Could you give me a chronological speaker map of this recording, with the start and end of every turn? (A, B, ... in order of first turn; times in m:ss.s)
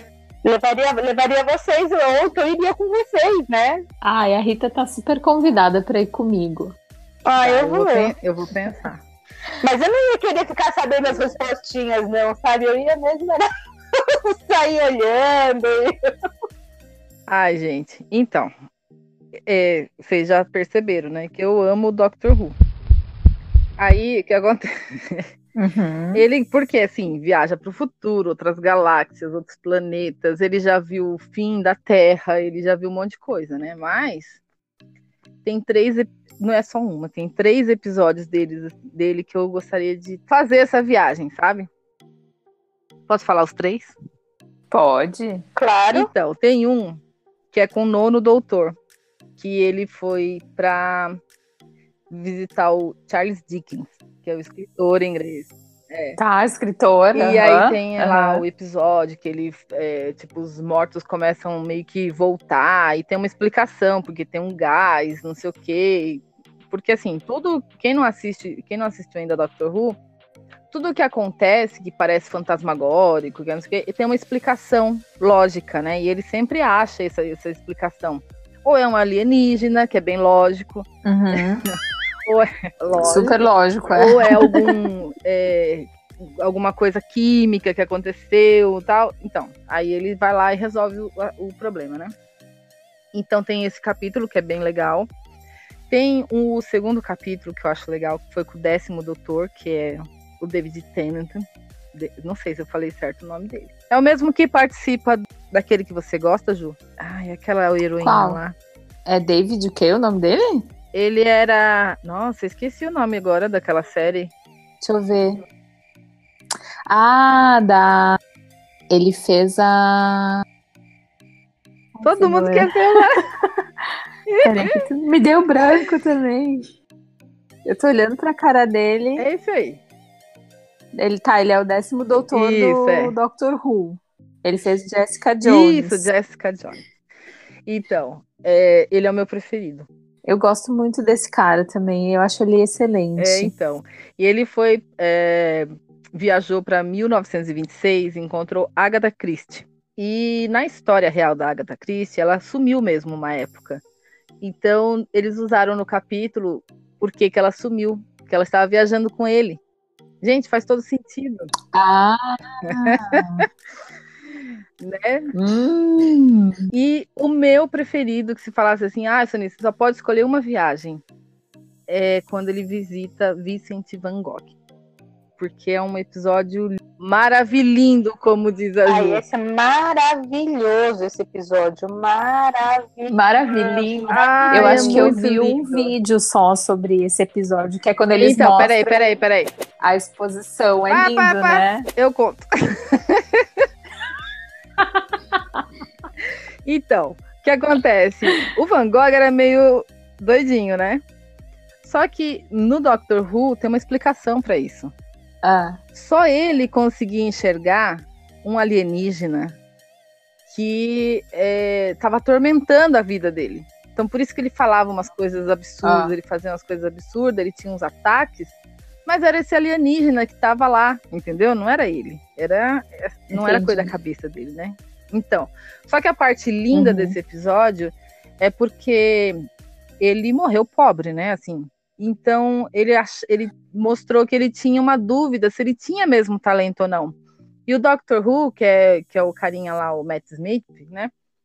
0:00.4-0:03.8 A
0:04.0-0:06.8 B
0:07.3-0:08.1 A
0:07.4-0:09.0 C
0:09.6-0:13.5 A
0:14.0-0:15.9 A
0:17.3-0:18.5 C
0:19.5-0:22.6 C
0:23.8-0:25.3 C
0:25.6-0:26.2 B
0:26.2-0:34.4 C
0:35.4-0:41.7 C
0:43.1-0:44.0 C
0:44.7-0:45.4 B
0:45.6-0:46.1 A
0:45.9-0:47.0 C
0:47.5-0:48.8 C
0:49.4-0:51.2 C
0:52.1-0:56.2 C
0:56.2-0:58.4 B
0:57.1-1:10.0 C
1:10.7-1:21.8 C
1:21.0-1:21.7 B
1:22.3-1:23.4 C
1:23.0-1:24.7 B
1:23.9-1:32.1 C
1:33.1-1:35.1 C
1:35.9-1:48.6 C
1:48.0-1:48.4 B
1:49.1-1:50.6 B
1:50.9-1:54.3 C
1:54.8-1:55.4 B
1:56.9-1:58.2 B
1:58.9-2:00.4 B
2:02.0-2:03.1 B
2:02.0-2:03.2 C
2:04.3-2:04.8 C
2:04.4-2:06.7 B
2:07.6-2:09.3 B
2:09.2-2:09.8 C
2:11.0-2:16.1 B
2:12.3-2:13.1 C
2:15.4-2:16.8 C
2:17.7-2:19.9 C
2:20.3-2:23.5 B
2:23.2-2:33.8 C
2:34.4-2:39.6 C
2:40.2-2:41.5 C
2:41.7-2:43.5 B
2:42.6-2:43.4 C
2:44.8-2:45.3 C
2:45.3-2:46.7 B
2:46.7-2:51.0 C
2:51.9-2:54.5 C
2:55.4-2:59.2 C
2:58.8-3:05.2 A
3:03.1-3:09.1 B
3:04.1-3:05.9 C
3:08.1-3:09.5 C
3:09.8-3:11.9 B
3:10.9-3:13.7 C
3:14.8-3:15.6 B
3:16.6-3:21.0 C
3:21.8-3:24.9 C
3:25.4-3:25.8 B
3:26.0-3:29.6 C
3:30.5-3:38.6 C
3:35.8-3:36.2 B
3:39.1-3:49.4 C
3:43.3-3:43.9 B
3:46.7-3:47.2 B
3:50.0-3:57.2 C
3:57.7-4:01.1 C